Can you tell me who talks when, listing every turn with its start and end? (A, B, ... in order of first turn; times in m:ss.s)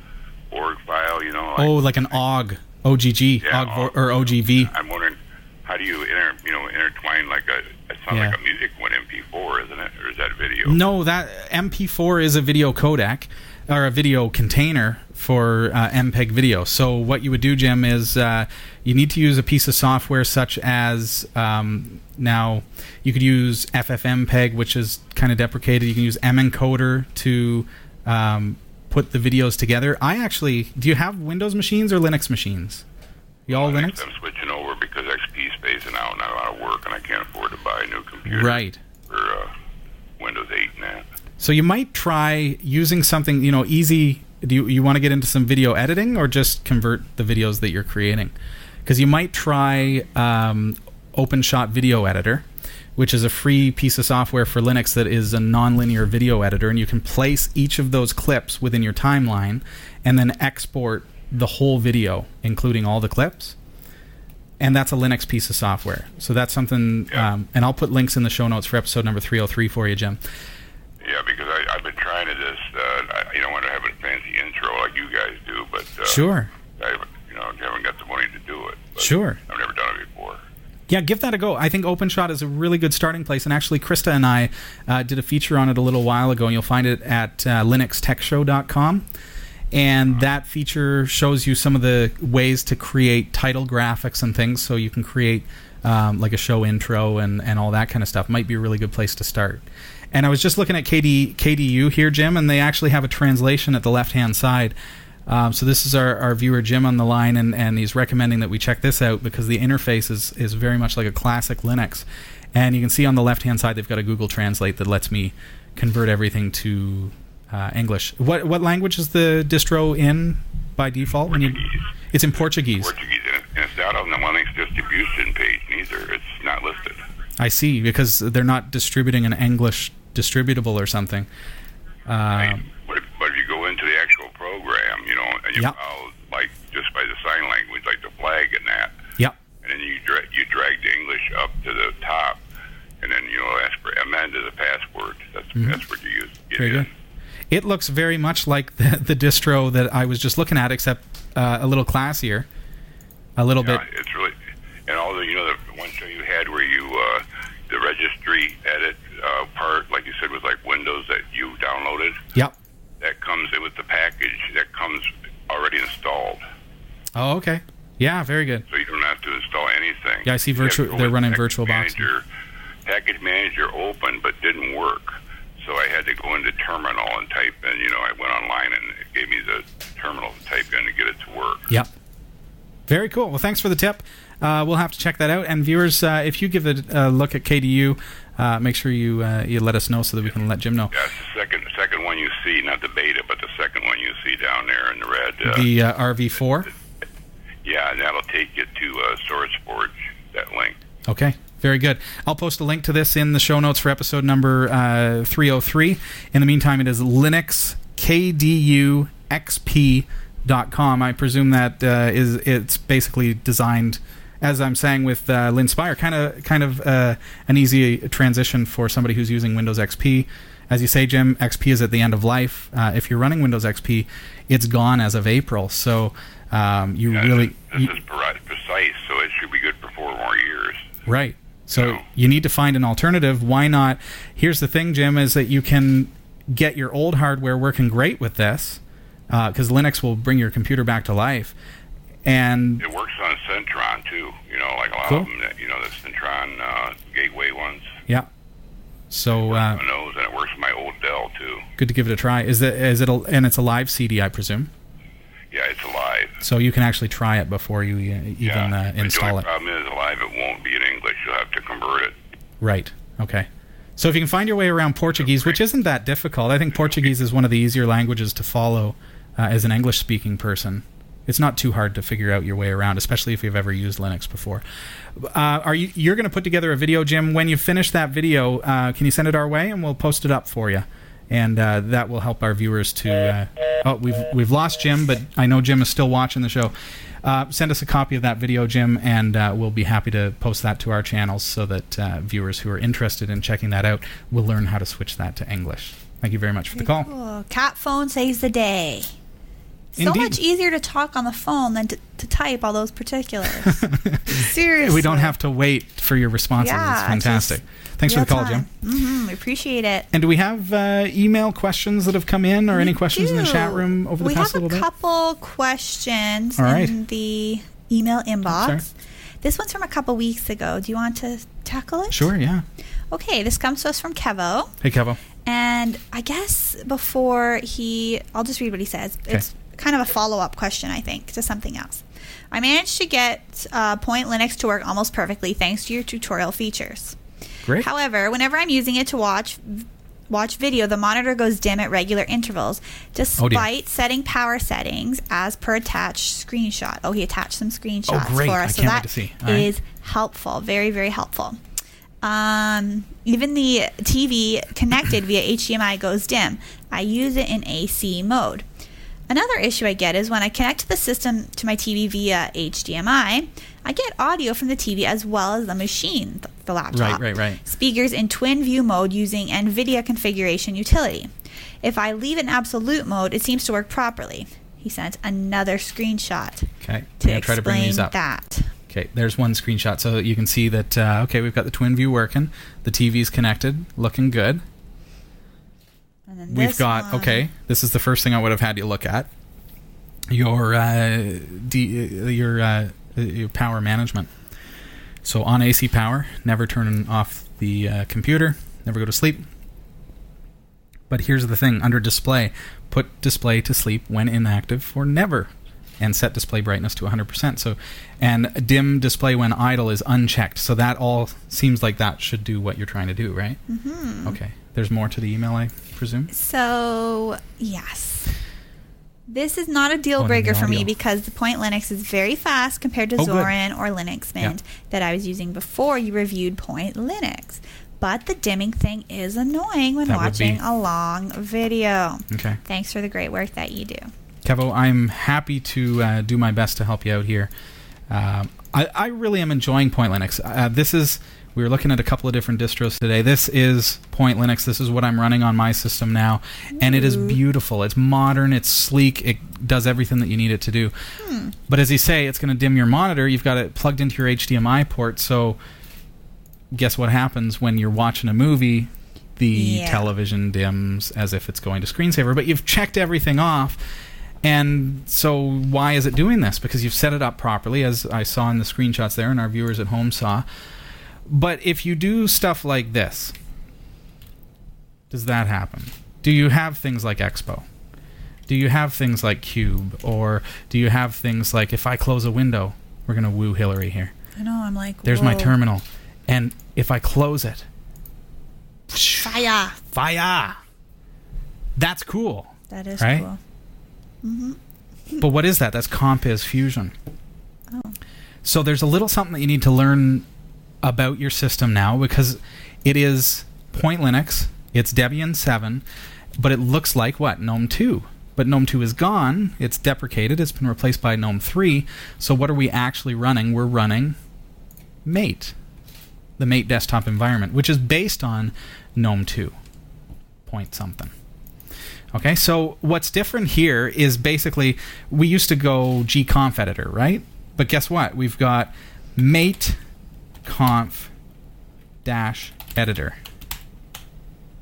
0:00.5-0:01.7 A
0:01.6-0:04.7 B
0:03.4-0:04.0 A
0:04.5-0:10.8 A
0:08.1-0:08.4 B
0:10.6-0:32.8 B
0:33.5-0:34.0 B
0:33.5-0:39.5 A
0:38.3-0:38.8 B
0:40.2-0:41.0 A
0:41.4-0:48.3 B
0:48.8-0:52.4 B
0:53.0-1:03.6 B
1:04.6-1:10.2 B
1:11.0-1:16.2 A
1:16.0-1:16.5 B
1:16.8-1:20.4 A
1:19.0-1:19.4 B
1:20.9-1:29.0 B
1:29.7-1:44.8 B
1:45.3-2:02.9 B
2:02.7-2:07.0 A
2:07.4-2:11.3 B
2:12.1-2:12.7 B
2:12.4-2:18.9 A
2:19.6-2:22.4 A
2:23.0-2:26.9 A
2:25.5-2:25.8 B
2:26.6-2:26.9 B
2:27.5-2:32.5 B
2:33.4-2:33.8 B
2:33.6-2:34.3 A
2:34.9-2:42.2 A
2:43.0-2:46.4 A
2:47.1-2:48.6 B
2:48.7-2:52.2 A
2:50.2-2:52.1 B
2:52.8-3:01.7 A
3:02.9-3:10.9 B
3:10.9-3:15.6 A
3:15.4-3:16.7 B
3:17.6-3:20.8 A
3:21.1-3:47.9 B
3:47.1-3:50.8 A
3:51.0-4:01.5 B
3:51.7-3:52.0 A
4:02.2-4:02.8 B
4:02.8-4:07.9 A
4:09.1-4:09.8 B
4:09.5-4:11.6 A
4:11.8-4:14.7 B
4:15.5-4:16.3 A
4:16.4-4:19.4 B
4:18.4-4:22.1 A
4:22.6-4:34.6 B
4:25.3-4:25.6 A
4:35.2-4:57.1 B
4:56.7-4:59.1 C
4:59.9-5:05.3 C
5:00.0-5:00.4 B
5:03.6-5:08.7 B
5:06.6-5:10.1 C
5:10.1-5:14.9 B
5:12.7-5:22.3 C
5:16.6-5:17.0 B
5:18.4-5:18.8 B
5:22.1-5:22.6 B
5:23.1-5:24.7 C
5:24.8-5:25.2 B
5:25.4-5:37.2 C
5:37.8-5:51.6 C
5:43.4-5:43.7 B
5:48.1-5:49.7 B
5:52.2-5:58.6 C
5:59.3-6:11.3 C
6:06.9-6:07.6 B
6:11.8-6:18.7 C
6:16.8-6:18.1 B
6:18.9-6:24.6 B
6:26.3-6:27.4 C
6:26.5-6:29.3 B
6:30.3-6:34.3 B
6:35.2-6:39.4 B
6:41.1-6:53.6 B
6:53.7-6:54.4 C
6:54.2-6:56.3 B
6:56.3-6:58.3 C
6:59.3-7:14.1 C
7:00.2-7:00.9 B
7:03.2-7:03.5 B
7:10.0-7:10.6 B
7:12.3-7:12.6 B
7:14.4-7:17.5 B
7:18.1-7:30.9 B
7:26.8-7:27.4 C
7:31.2-7:31.5 C
7:31.7-7:35.6 B
7:36.7-7:43.8 B
7:39.5-7:40.1 C
7:44.4-7:50.4 B
7:51.2-7:53.3 B
7:55.1-7:57.6 B
7:58.5-8:04.1 B
8:04.4-8:05.5 C
8:05.0-8:07.7 B
8:08.9-8:09.4 B
8:09.2-8:09.8 C
8:09.9-8:10.6 B
8:11.8-8:13.3 B
8:12.7-8:13.4 C
8:14.2-8:14.6 C
8:15.2-8:16.9 B
8:17.7-8:18.0 C
8:18.4-8:20.3 B
8:20.8-8:25.8 B
8:26.4-8:34.2 B
8:35.0-8:35.5 B
8:36.4-8:39.5 B
8:40.4-8:41.1 B
8:42.1-8:49.8 B
8:50.4-8:51.1 B
8:52.0-8:53.2 B